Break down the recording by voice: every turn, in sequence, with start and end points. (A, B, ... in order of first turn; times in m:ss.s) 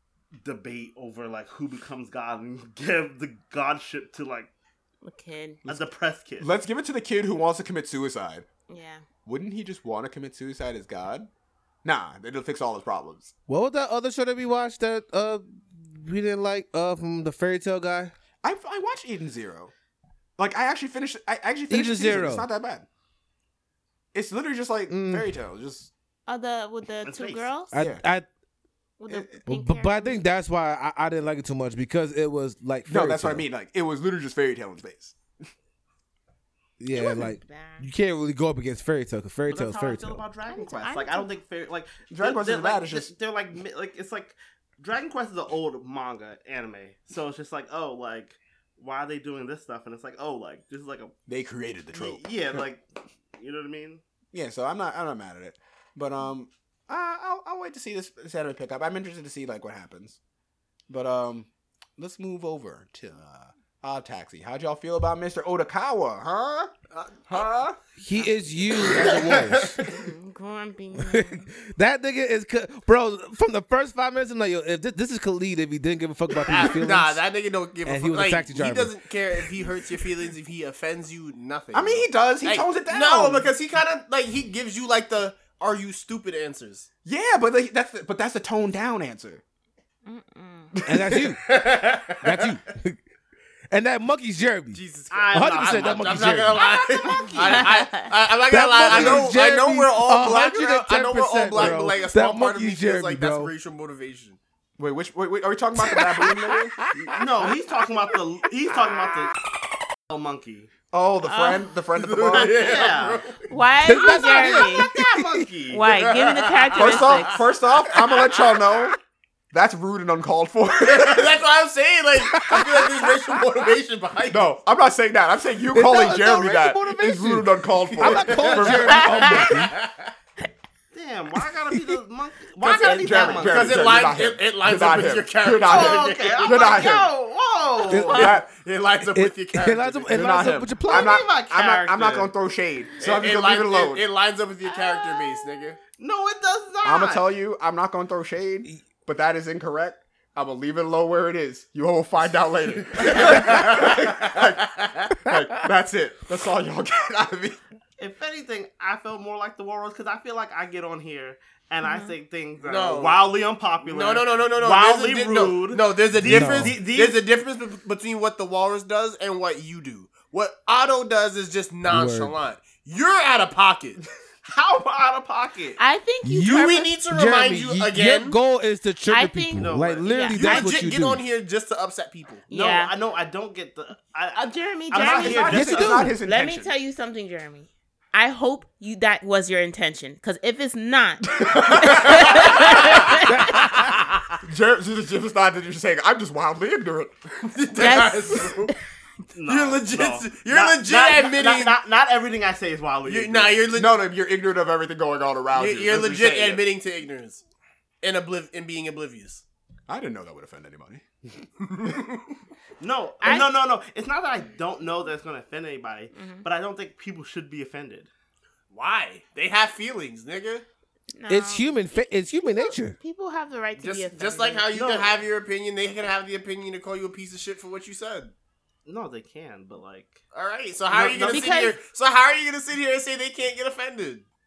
0:00.4-0:04.5 A
0:05.0-0:05.6 B
0:05.6-0:06.5 A
0:06.4-0:08.5 C
0:08.7-0:09.0 B
0:09.2-0:11.3 C
0:11.8-0:13.3 C
0:13.5-0:18.1 D
0:18.4-0:19.7 C
0:20.4-0:22.8 C
0:21.7-0:22.4 D
0:24.1-0:25.9 C
0:24.9-0:25.3 D
0:26.3-0:27.7 B
0:27.0-0:27.5 A
0:27.7-0:28.3 D
0:27.8-0:28.0 C
0:29.0-0:30.2 B
0:29.1-0:29.4 C
0:29.4-0:33.4 D
0:32.9-0:35.2 C
0:36.8-0:40.2 D
0:36.9-0:37.9 B
0:39.5-0:51.1 A
0:40.5-0:41.3 B
0:42.1-0:43.1 C
0:51.3-0:52.6 C
0:51.9-0:54.0 A
0:54.3-1:00.2 C
1:00.9-1:06.7 C
1:06.9-1:07.5 E
1:07.3-1:07.8 C
1:08.0-1:09.8 D
1:08.8-1:09.9 E
1:09.8-1:11.5 B
1:11.0-1:17.2 D
1:16.4-1:26.9 E
1:17.8-1:19.0 D
1:21.7-1:23.5 C
1:27.0-1:29.4 C
1:30.0-1:30.8 B
1:30.7-1:31.2 C
1:30.8-1:31.5 D
1:31.1-1:32.6 E
1:32.2-1:33.0 D
1:33.7-1:34.8 D
1:34.7-1:44.4 E
1:35.1-1:37.6 A
1:35.3-1:36.6 D
1:37.0-1:38.1 B
1:38.4-1:43.5 D
1:38.8-1:39.3 C
1:44.8-1:46.9 C
1:45.8-1:47.1 D
1:47.1-1:49.4 A
1:50.1-1:50.7 A
1:50.9-1:52.7 C
1:51.2-1:51.6 B
1:52.0-1:53.5 E
1:52.3-1:53.2 A
1:53.5-1:54.9 B
1:53.8-1:55.5 D
1:54.9-1:55.8 A
1:55.7-1:57.5 B
1:55.7-1:58.8 E
1:56.7-1:59.0 C
1:59.5-2:01.4 C
2:00.8-2:04.5 E
2:02.3-2:03.1 D
2:04.3-2:09.4 C
2:05.7-2:09.8 D
2:08.0-2:10.1 E
2:09.1-2:09.4 B
2:10.9-2:14.0 A
2:12.6-2:17.1 C
2:12.6-2:16.9 E
2:15.6-2:18.3 A
2:17.9-2:18.3 D
2:18.0-2:20.4 E
2:18.1-2:18.5 C
2:19.0-2:21.3 D
2:20.1-2:24.0 C
2:20.9-2:22.3 A
2:23.0-2:25.8 E
2:24.7-2:25.3 B
2:26.0-2:27.2 A
2:26.8-2:34.6 C
2:33.0-2:35.1 E
2:35.2-2:37.6 C
2:38.0-2:47.2 A
2:41.8-2:42.1 B
2:42.6-2:43.3 E
2:43.8-2:54.0 E
2:46.2-2:46.8 D
2:51.8-2:52.3 D
2:54.4-2:55.8 A
2:55.8-2:56.9 B
2:56.2-3:01.2 D
2:56.4-2:58.4 E
2:59.1-3:00.6 B
2:59.5-3:00.6 A
3:00.4-3:02.4 E
3:02.5-3:02.9 B
3:02.5-3:06.1 A
3:04.4-3:13.6 B
3:05.0-3:06.7 C
3:05.5-3:06.1 D
3:11.3-3:13.2 C
3:12.2-3:13.0 E
3:13.3-3:13.8 D
3:14.4-3:17.2 C
3:17.5-3:18.7 E
3:17.8-3:18.8 B
3:19.3-3:23.6 A
3:19.5-3:21.7 E
3:23.0-3:24.0 E
3:23.7-3:26.6 C
3:25.5-3:27.4 E
3:28.0-3:29.4 E
3:29.9-3:31.5 C
3:31.6-3:32.4 E
3:32.8-3:38.1 A
3:33.2-3:33.5 B
3:36.1-3:36.4 B
3:38.7-3:40.6 E
3:41.1-3:41.7 B
3:41.3-3:43.0 D
3:42.6-3:44.7 B
3:43.8-3:48.3 E
3:44.7-3:45.2 A
3:48.8-3:50.2 A
3:50.3-3:54.2 E
3:50.9-3:51.6 A
3:51.2-3:51.8 B